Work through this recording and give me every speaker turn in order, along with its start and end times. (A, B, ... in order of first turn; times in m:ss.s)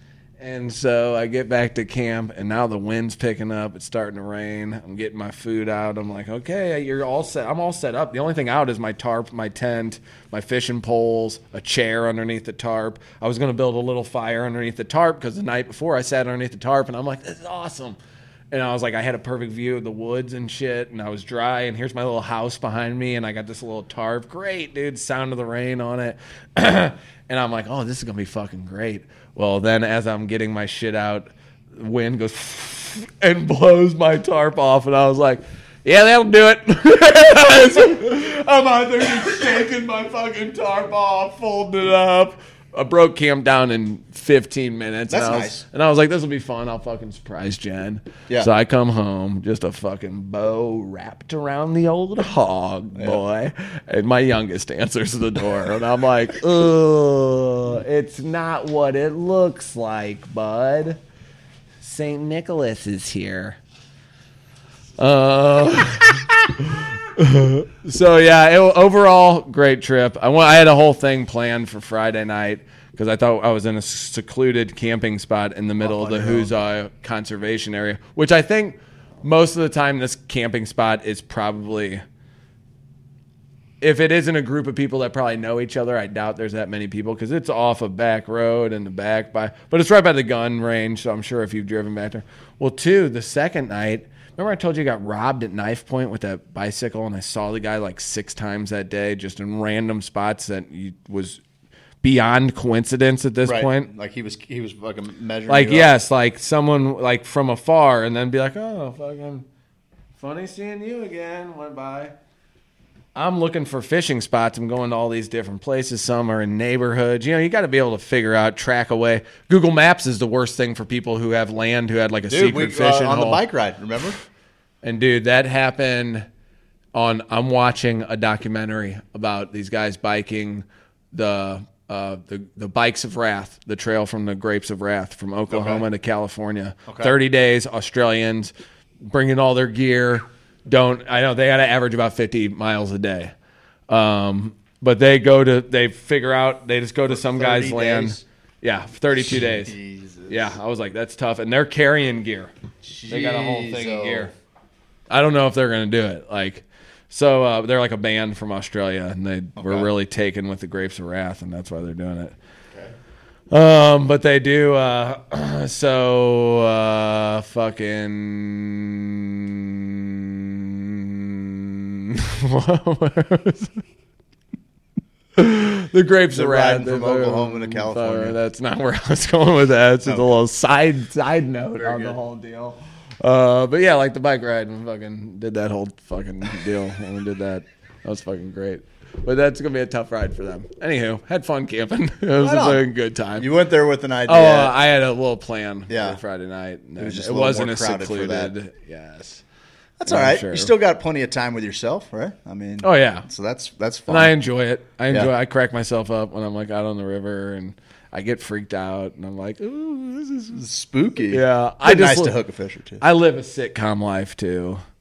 0:00.4-0:18.0 A
0:18.5-1:01.0 A
0:45.1-0:45.6 B
0:53.0-0:53.2 B
1:01.8-1:03.6 A
1:05.0-1:22.0 A
1:15.8-1:16.5 B
1:23.8-1:41.4 A
1:42.0-1:43.9 A
1:43.4-1:45.9 B
1:45.5-1:49.5 A
1:50.2-1:52.1 A
1:53.2-2:03.4 A
2:02.3-2:04.2 B
2:04.8-2:06.3 A
2:06.9-2:18.5 A
2:15.5-2:15.8 B
2:16.9-2:17.2 B
2:19.0-2:23.3 A
2:23.9-2:29.7 A
2:27.1-2:28.2 B
2:29.2-2:30.6 B
2:30.3-2:32.5 A
2:32.8-2:34.3 B
2:33.1-2:34.3 A
2:35.1-2:42.4 A
2:39.6-2:39.9 B
2:43.5-2:53.8 A
2:55.4-3:13.5 A
2:56.3-2:58.4 B
3:00.0-3:00.4 B
3:01.8-3:02.2 B
3:12.4-3:14.8 B
3:14.3-3:19.4 A
3:15.9-3:16.2 B
3:17.0-3:18.5 B
3:20.0-3:24.4 B
3:20.1-3:20.7 A
3:22.8-3:23.3 A
3:24.1-3:30.6 A
3:30.5-3:33.0 B
3:31.3-3:32.4 A
3:33.0-3:34.8 A